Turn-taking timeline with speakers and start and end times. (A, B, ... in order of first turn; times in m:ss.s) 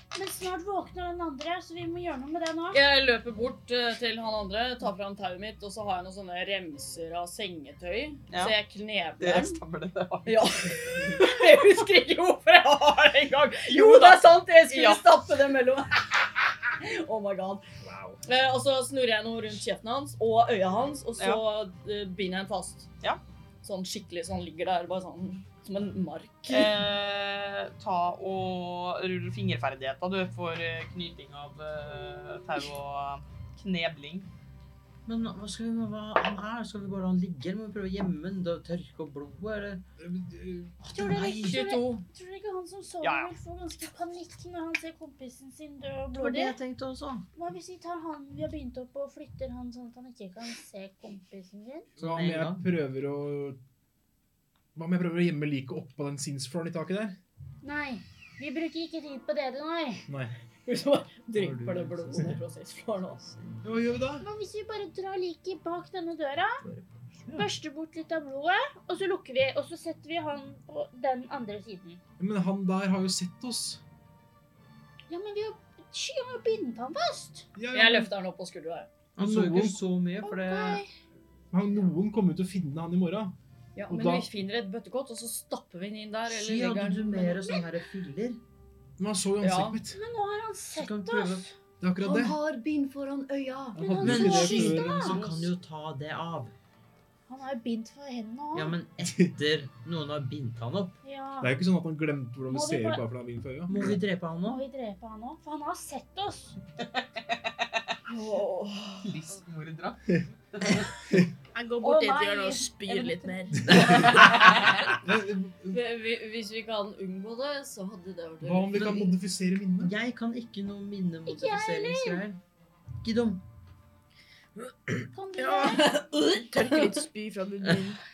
0:00.1-0:02.8 A
0:02.7-0:09.6 B
0:08.3-0:08.6 C
0:09.2-0:10.5 C
0:10.2-0:17.7 B
0:13.6-0:15.0 C
0:17.8-0:18.2 D
0:18.2-0:22.9 B
0:23.6-0:26.8 B
0:26.5-0:34.3 C
0:35.0-0:39.8 E
0:40.0-0:40.8 D
0:40.8-0:46.6 A
0:40.9-0:41.8 E
0:41.4-0:42.0 B
0:43.0-0:43.3 C
0:46.1-0:47.3 E
0:47.3-0:51.9 A
0:52.0-0:53.6 D
0:52.0-0:52.6 E
0:54.7-0:57.2 D
0:57.6-1:00.0 A
1:00.1-1:00.3 D
1:00.6-1:03.3 B
1:01.3-1:02.4 E
1:03.2-1:03.7 E
1:03.6-1:04.3 D
1:04.2-1:06.6 A
1:06.6-1:07.4 E
1:07.3-1:12.0 A
1:12.2-1:13.8 D
1:15.1-1:17.5 A
1:17.6-1:18.1 D
1:17.7-1:18.9 B
1:19.2-1:20.8 E
1:19.2-1:19.8 D
1:20.2-1:20.9 A
1:21.5-1:23.3 D
1:23.7-1:27.3 B
1:23.9-1:24.3 D
1:26.3-1:28.4 E
1:29.0-1:30.0 D
1:29.4-1:29.8 B
1:29.9-1:31.5 A
1:30.7-1:31.5 E
1:31.8-1:32.4 D
1:32.0-1:33.9 B
1:33.8-1:35.2 A
1:33.8-1:35.2 D
1:34.0-1:36.5 E
1:37.3-1:38.8 A
1:38.5-1:41.0 E
1:41.0-1:41.5 A
1:41.4-1:44.0 D
1:42.5-1:43.0 A
1:43.7-1:44.6 E
1:44.4-1:46.6 A
1:46.9-1:47.8 C
1:48.1-1:49.2 B
1:49.0-1:50.9 C
1:51.5-1:53.9 F
1:51.8-1:54.9 C
1:53.7-1:54.2 E
1:53.7-1:55.8 D
1:55.7-1:59.0 B
1:58.4-1:59.9 D
1:58.7-1:59.1 E
1:59.8-2:02.4 E
2:01.3-2:02.2 A
2:03.0-2:03.4 E
2:05.1-2:05.9 A
2:05.4-2:08.0 F